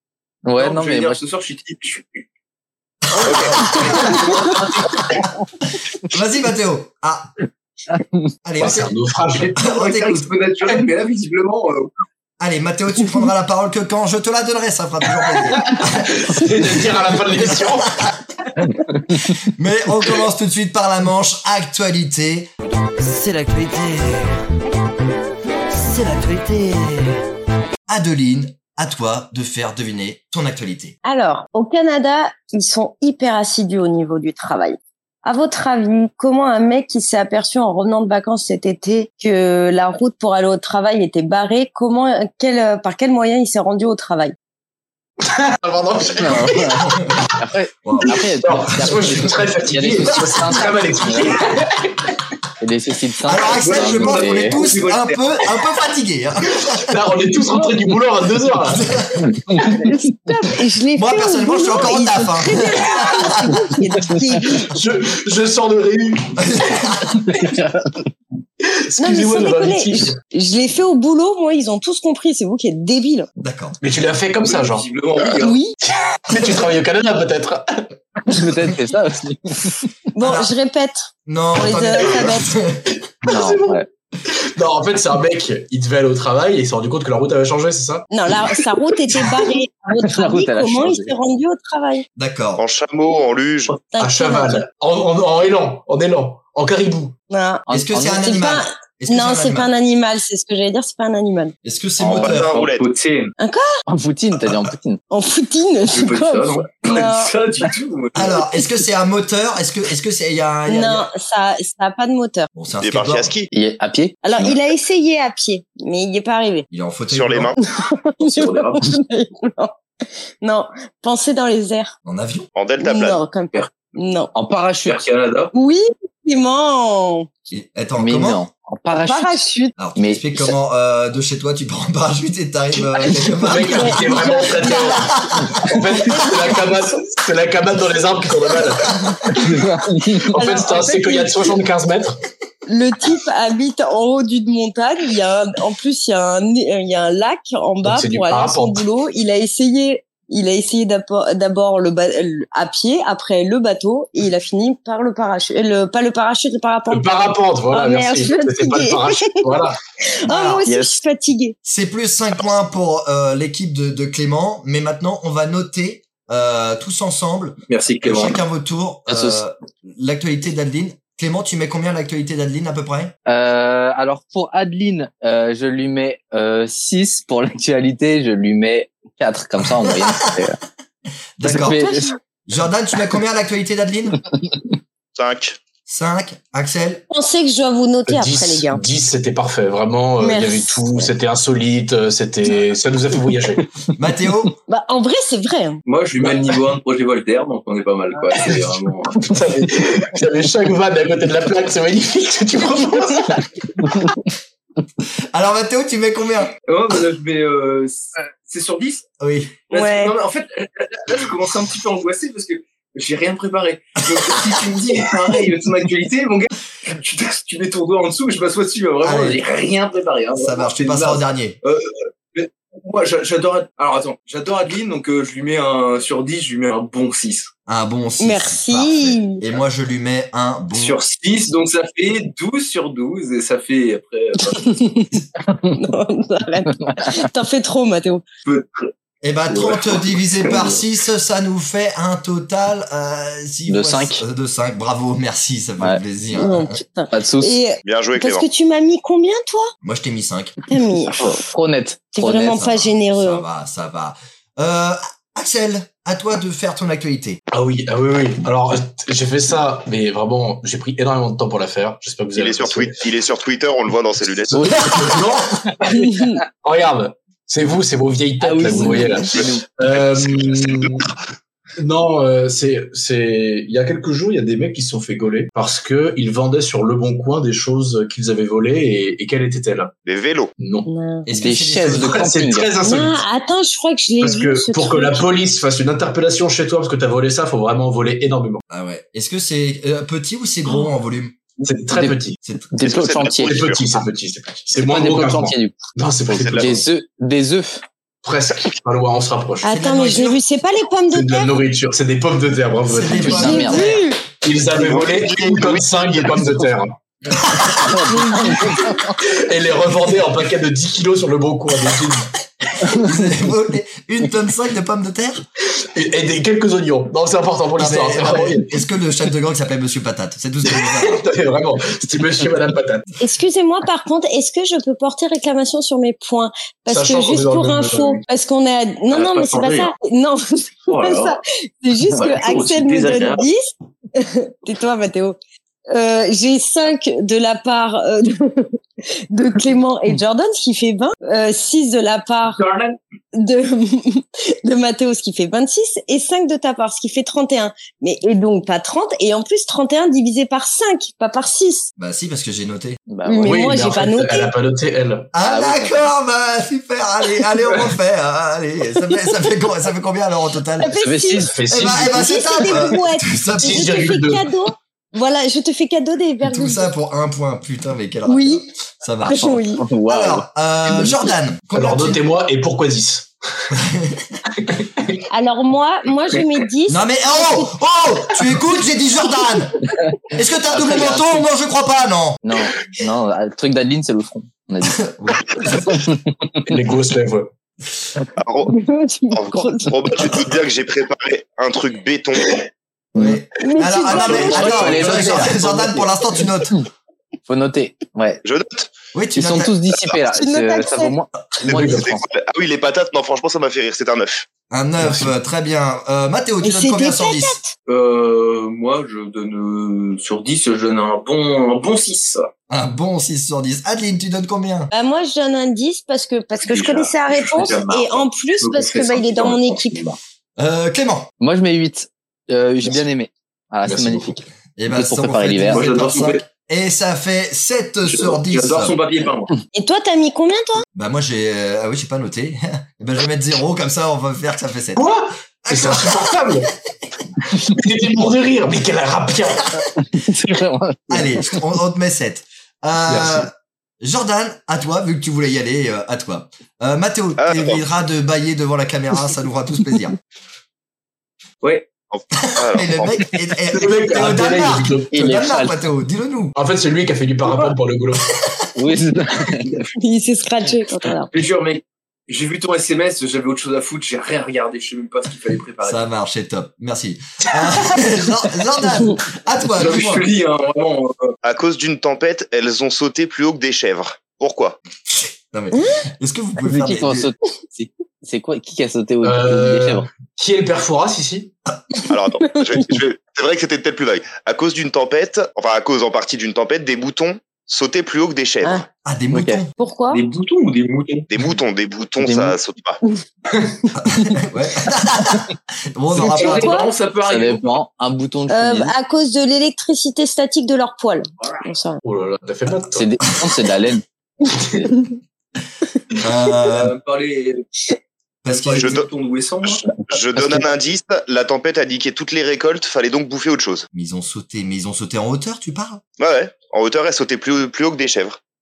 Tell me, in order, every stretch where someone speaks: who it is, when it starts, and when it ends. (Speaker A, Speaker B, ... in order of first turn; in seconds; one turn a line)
Speaker A: 0.4-1.2
Speaker B: 0.6-2.2
Speaker C: 3.0-4.4
Speaker B: 3.2-5.0
Speaker A: 4.4-5.2
Speaker C: 6.0-7.3
Speaker A: 7.9-8.3
Speaker C: 8.4-8.9
Speaker D: 8.6-9.5
Speaker B: 9.3-11.9
Speaker C: 9.6-10.3
Speaker C: 12.4-18.2
Speaker D: 15.6-18.0
Speaker A: 18.6-19.4
Speaker C: 19.4-22.5
Speaker C: 23.0-24.2
Speaker C: 25.8-26.9
Speaker C: 27.9-30.9
Speaker E: 31.0-44.3
Speaker D: 45.2-47.4
Speaker A: 46.2-51.4
Speaker C: 47.8-49.3
Speaker D: 48.2-52.1
Speaker A: 52.6-54.6
Speaker C: 53.2-56.9
Speaker B: 53.4-55.5
Speaker D: 56.7-58.9
Speaker C: 58.6-59.6
Speaker A: 59.5-59.8
Speaker E: 59.8-64.7
Speaker C: 60.9-63.5
Speaker D: 64.6-66.9
Speaker C: 66.4-67.2
Speaker A: 67.3-67.9
Speaker D: 68.9-70.2
Speaker E: 69.0-73.3
Speaker C: 73.4-73.8
Speaker D: 73.8-74.9
Speaker B: 74.4-75.6
Speaker E: 75.4-75.7
Speaker D: 75.8-77.9
Speaker A: 78.2-79.9
Speaker E: 80.1-82.5
Speaker C: 80.2-80.5
Speaker C: 81.2-83.0
Speaker D: 83.3-89.5
Speaker A: 83.3-83.9
Speaker E: 88.1-92.0
Speaker A: 90.0-91.1
Speaker C: 92.2-92.6
Speaker F: 92.5-93.8
Speaker E: 93.9-94.6
Speaker D: 94.0-97.1
Speaker E: 97.3-101.5
Speaker A: 97.7-98.2
Speaker C: 97.7-99.7
Speaker C: 101.6-102.5
Speaker A: 102.0-102.4
Speaker F: 102.1-102.9
Speaker B: 102.5-103.3
Speaker E: 103.4-103.7
Speaker A: 103.9-105.0
Speaker E: 105.1-107.3
Speaker B: 105.9-108.4
Speaker C: 108.1-111.1
Speaker E: 110.7-112.5
Speaker C: 112.5-113.3
Speaker F: 112.8-113.5
Speaker A: 113.5-114.6
Speaker E: 114.2-116.7
Speaker C: 116.7-117.6
Speaker F: 117.1-117.5
Speaker E: 117.6-119.7
Speaker B: 118.2-118.8
Speaker E: 120.4-122.0
Speaker C: 122.0-122.5
Speaker F: 122.5-123.2
Speaker E: 122.8-124.3
Speaker A: 124.3-125.0
Speaker B: 124.8-125.5
Speaker E: 125.5-127.3
Speaker C: 127.5-128.4
Speaker A: 128.0-129.3
Speaker E: 129.0-129.7
Speaker C: 129.8-135.8
Speaker A: 129.9-130.2
Speaker D: 132.7-139.6
Speaker E: 133.7-135.1
Speaker E: 135.9-136.6
Speaker A: 139.2-140.3
Speaker D: 140.1-142.2
Speaker E: 140.3-141.5
Speaker E: 142.7-161.5
Speaker D: 147.8-148.8
Speaker D: 156.9-159.8
Speaker C: 160.2-160.6
Speaker A: 160.6-161.0
Speaker C: 161.6-173.1
Speaker B: 167.7-168.4
Speaker A: 169.1-169.4
Speaker A: 173.3-180.6
Speaker C: 179.6-180.4
Speaker C: 181.4-181.8
Speaker A: 181.4-182.1
Speaker E: 181.7-182.2
Speaker C: 182.4-184.2
Speaker A: 184.1-184.7
Speaker F: 185.2-185.6
Speaker C: 185.9-187.0
Speaker E: 187.1-188.8
Speaker D: 188.1-193.7
Speaker E: 190.2-191.1
Speaker C: 194.0-194.6
Speaker E: 194.7-195.8
Speaker B: 195.8-199.2
Speaker D: 198.3-203.4
Speaker E: 202.8-203.4
Speaker A: 203.8-204.2
Speaker C: 205.3-206.5
Speaker B: 206.7-209.0
Speaker C: 209.2-209.6
Speaker B: 209.7-227.5
Speaker E: 209.7-210.1
Speaker C: 219.0-219.4
Speaker C: 220.3-221.6
Speaker C: 227.7-231.0
Speaker E: 228.2-229.4
Speaker B: 230.7-234.8
Speaker E: 234.5-238.2
Speaker A: 235.5-235.8
Speaker A: 236.8-237.2
Speaker B: 238.4-238.9
Speaker C: 239.2-246.8
Speaker B: 239.5-240.8
Speaker A: 243.7-244.2
Speaker E: 246.3-249.7
Speaker A: 247.1-247.6
Speaker F: 247.8-248.4
Speaker C: 249.8-250.6
Speaker E: 250.7-251.2
Speaker A: 251.2-252.6
Speaker E: 252.1-253.4
Speaker C: 252.5-257.4
Speaker D: 257.5-262.9
Speaker F: 262.4-265.0
Speaker D: 264.5-271.1
Speaker A: 264.6-264.9
Speaker E: 266.0-266.3
Speaker A: 268.4-269.6
Speaker F: 269.9-271.0
Speaker D: 271.8-279.9
Speaker F: 280.0-280.5
Speaker D: 280.6-280.9
Speaker E: 280.8-281.3
Speaker C: 281.2-282.3
Speaker A: 281.4-282.7
Speaker D: 281.8-283.2
Speaker E: 282.8-285.2
Speaker D: 284.2-288.6
Speaker C: 288.7-291.4
Speaker D: 291.6-292.4
Speaker A: 291.9-293.5
Speaker C: 292.4-292.7
Speaker F: 292.8-294.0
Speaker D: 293.4-296.9
Speaker A: 294.8-295.8
Speaker F: 296.3-296.8
Speaker A: 296.5-297.8
Speaker D: 298.2-299.6
Speaker E: 299.6-301.5
Speaker C: 299.6-300.4
Speaker D: 301.1-303.6
Speaker C: 302.9-304.0
Speaker A: 303.2-304.0
Speaker E: 303.3-304.2
Speaker D: 304.4-306.9
Speaker F: 304.7-306.4
Speaker C: 307.4-308.0
Speaker A: 307.7-309.2
Speaker E: 308.1-308.8
Speaker D: 309.2-312.3
Speaker A: 312.8-313.5
Speaker C: 312.8-315.4
Speaker D: 315.9-318.7
Speaker C: 317.8-321.3
Speaker D: 320.6-323.1
Speaker E: 323.2-335.4
Speaker D: 326.9-328.2
Speaker B: 329.1-329.9
Speaker B: 330.9-331.4
Speaker B: 332.2-333.4
Speaker E: 335.9-338.8
Speaker E: 339.3-342.6
Speaker B: 342.5-343.0
Speaker E: 343.3-351.9
Speaker C: 352.0-353.0
Speaker A: 353.1-353.8
Speaker E: 353.2-354.5
Speaker D: 353.4-355.3
Speaker C: 355.3-360.9
Speaker A: 355.4-356.1
Speaker E: 360.8-366.9
Speaker A: 360.9-361.6
Speaker D: 361.4-362.3
Speaker C: 361.7-363.9
Speaker D: 363.6-364.5
Speaker C: 366.4-372.2
Speaker E: 368.2-368.6
Speaker E: 369.2-369.9
Speaker A: 369.8-371.3
Speaker D: 371.7-373.3
Speaker C: 373.7-374.3
Speaker D: 374.6-375.1
Speaker E: 375.3-377.7
Speaker C: 376.9-382.5
Speaker A: 380.7-381.4
Speaker A: 382.4-385.1
Speaker C: 384.8-386.0
Speaker A: 385.6-386.6
Speaker D: 386.6-387.5
Speaker F: 388.4-388.7
Speaker E: 388.7-390.2
Speaker F: 389.3-392.6
Speaker A: 393.1-393.4
Speaker C: 393.1-396.8
Speaker E: 393.6-394.9
Speaker D: 394.1-395.5
Speaker A: 394.2-396.1
Speaker A: 397.5-398.4
Speaker F: 398.4-398.9
Speaker C: 399.1-399.8
Speaker A: 399.3-402.2
Speaker E: 400.3-401.1
Speaker D: 401.7-402.0
Speaker F: 401.7-404.5
Speaker C: 404.7-407.6
Speaker D: 405.0-405.3
Speaker E: 406.6-407.7
Speaker B: 407.9-412.5
Speaker C: 412.7-414.9
Speaker E: 414.9-420.1
Speaker B: 416.6-420.1
Speaker C: 420.6-421.3
Speaker A: 421.4-425.9
Speaker D: 423.9-424.4
Speaker C: 424.8-429.0
Speaker B: 425.7-426.4
Speaker B: 428.1-429.5
Speaker E: 429.7-430.8
Speaker C: 430.9-435.1
Speaker D: 434.9-436.7
Speaker C: 435.6-436.6
Speaker D: 437.5-439.7
Speaker A: 439.9-441.6
Speaker C: 441.1-450.1
Speaker D: 443.1-443.4
Speaker F: 447.4-447.8
Speaker B: 451.6-451.9
Speaker F: 452.1-453.1
Speaker C: 452.3-456.5
Speaker D: 453.7-455.3
Speaker A: 455.1-455.7
Speaker D: 456.5-458.4
Speaker A: 458.8-459.9
Speaker E: 460.0-461.3
Speaker B: 461.3-466.0
Speaker C: 465.8-470.2
Speaker B: 469.8-471.3
Speaker F: 471.4-474.8
Speaker C: 475.1-477.3
Speaker E: 475.7-476.0
Speaker A: 476.6-480.1
Speaker D: 479.2-481.5
Speaker F: 482.1-488.8
Speaker C: 489.0-489.7
Speaker A: 489.3-489.6
Speaker E: 489.8-490.2
Speaker B: 490.1-491.3
Speaker F: 491.3-493.0
Speaker A: 492.2-492.6
Speaker C: 493.9-496.8
Speaker B: 496.2-497.7
Speaker E: 496.3-496.9
Speaker A: 497.2-498.9
Speaker E: 498.5-502.0
Speaker D: 502.0-503.2
Speaker A: 502.9-504.0
Speaker D: 504.5-504.9
Speaker C: 506.2-506.9
Speaker B: 506.6-507.7
Speaker C: 508.4-509.0
Speaker B: 508.5-509.8
Speaker F: 508.8-509.1
Speaker A: 509.9-510.7
Speaker F: 510.1-513.9
Speaker C: 513.9-516.0
Speaker F: 516.2-518.4